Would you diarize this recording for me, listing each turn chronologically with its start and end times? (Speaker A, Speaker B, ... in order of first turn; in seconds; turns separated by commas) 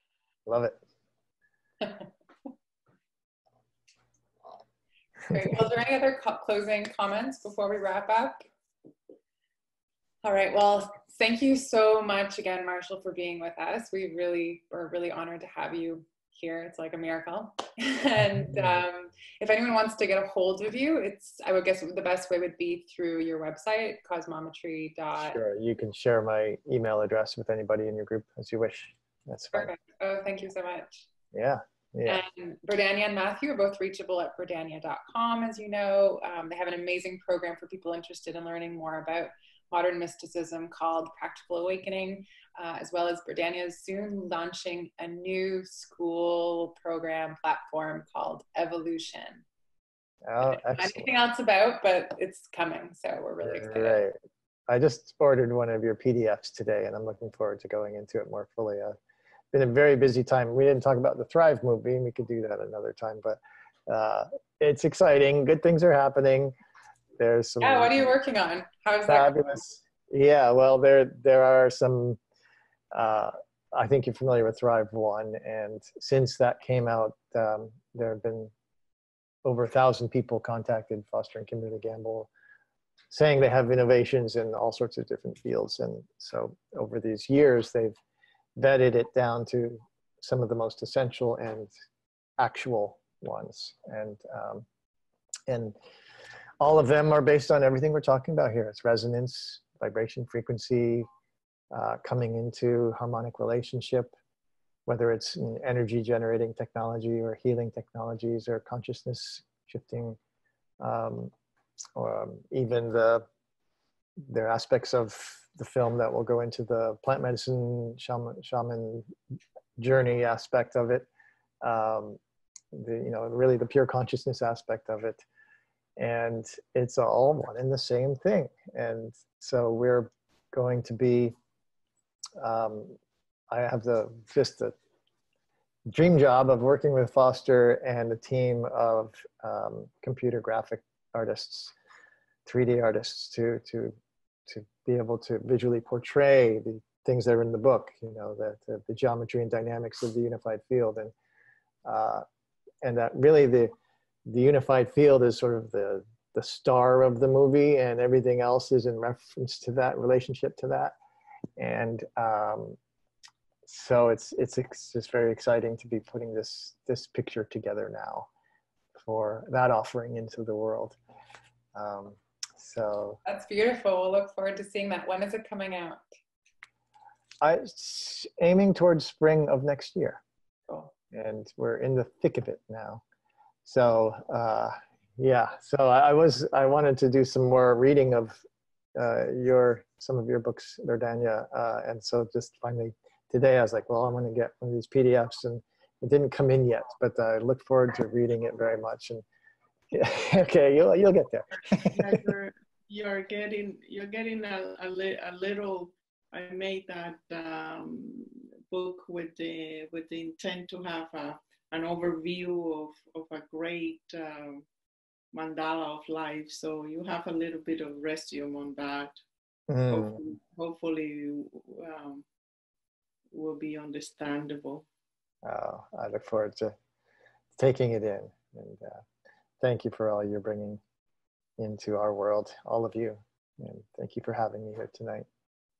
Speaker A: 0.5-0.8, Speaker B: 5.3-8.4, Speaker B: 10.2-25.4, Speaker A: 18.4-18.8, Speaker A: 25.2-29.7, Speaker B: 29.5-31.1, Speaker A: 31.3-32.2, Speaker B: 32.0-49.4, Speaker A: 50.2-51.1, Speaker B: 50.4-54.0, Speaker A: 53.4-54.1, Speaker A: 54.7-59.0, Speaker A: 59.5-66.5, Speaker A: 67.2-68.1, Speaker B: 67.6-69.6, Speaker A: 69.1-72.2, Speaker A: 72.9-78.5, Speaker A: 79.4-82.3, Speaker A: 83.1-88.0, Speaker A: 88.5-91.7, Speaker A: 92.4-94.7, Speaker A: 95.5-95.8, Speaker A: 96.6-101.1, Speaker A: 101.7-104.1, Speaker A: 104.8-110.2, Speaker A: 110.8-111.3, Speaker A: 112.0-113.2, Speaker A: 114.2-119.1, Speaker A: 119.8-121.1, Speaker A: 121.6-122.2, Speaker A: 122.7-125.2, Speaker A: 126.0-131.3, Speaker A: 132.4-133.0, Speaker A: 133.5-134.7, Speaker A: 135.9-141.7, Speaker A: 142.4-151.1, Speaker A: 151.8-152.2, Speaker A: 152.8-153.7, Speaker A: 154.2-160.9, Speaker A: 161.6-162.8, Speaker A: 163.7-168.3, Speaker A: 168.9-171.0, Speaker A: 171.7-173.2, Speaker B: 173.2-176.0, Speaker A: 177.4-180.2, Speaker A: 181.1-183.0, Speaker A: 183.6-188.4, Speaker A: 188.9-199.2, Speaker A: 199.9-202.2, Speaker C: 201.7-214.7, Speaker C: 215.3-219.2, Speaker A: 219.7-220.2, Speaker C: 219.9-222.2, Speaker C: 223.3-224.8, Speaker A: 225.4-226.8, Speaker A: 227.6-229.0, Speaker A: 229.6-230.8, Speaker A: 231.6-235.3